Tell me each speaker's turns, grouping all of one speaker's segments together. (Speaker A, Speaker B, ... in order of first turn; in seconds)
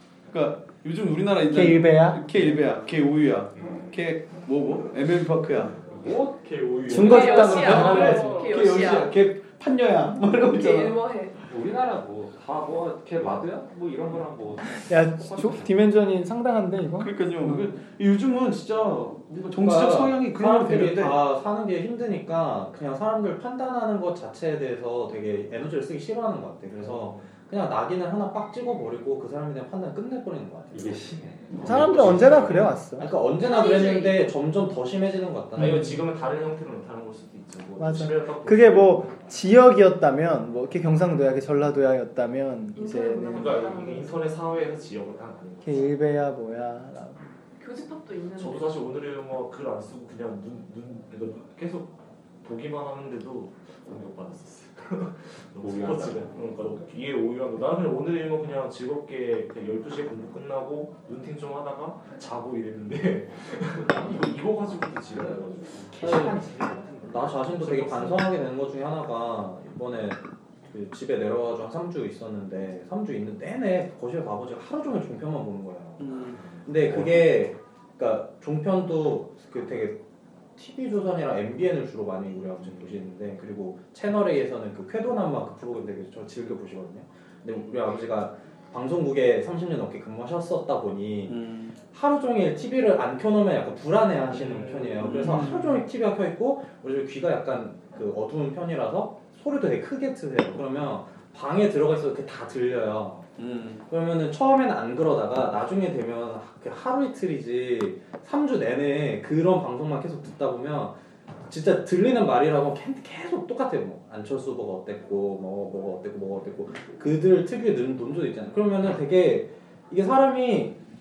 Speaker A: 0.3-5.8, 6.9-11.0, 17.0-21.2, 76.0-77.3, 91.3-91.7, 94.9-95.8, 103.4-103.8
Speaker B: 1.5-2.2, 6.9-8.2, 14.8-17.7, 31.6-33.1, 37.8-43.6, 45.6-47.3
Speaker C: 3.6-3.9, 5.9-6.4, 11.5-15.7, 30.7-32.7, 55.6-56.3, 65.9-67.3
Speaker D: 6.1-8.5, 26.8-27.3, 31.6-32.7, 35.5-39.3, 43.3-45.8, 48.4-66.7, 67.2-68.3, 76.4-76.7, 94.2-95.5
Speaker E: 6.9-9.2, 10.4-11.3, 33.4-34.2, 42.7-44.2, 47.6-48.8
Speaker F: 19.3-31.0, 31.8-35.9, 66.0-66.4, 67.1-76.1, 76.6-80.0, 80.5-103.3, 103.9-111.0, 111.5-120.8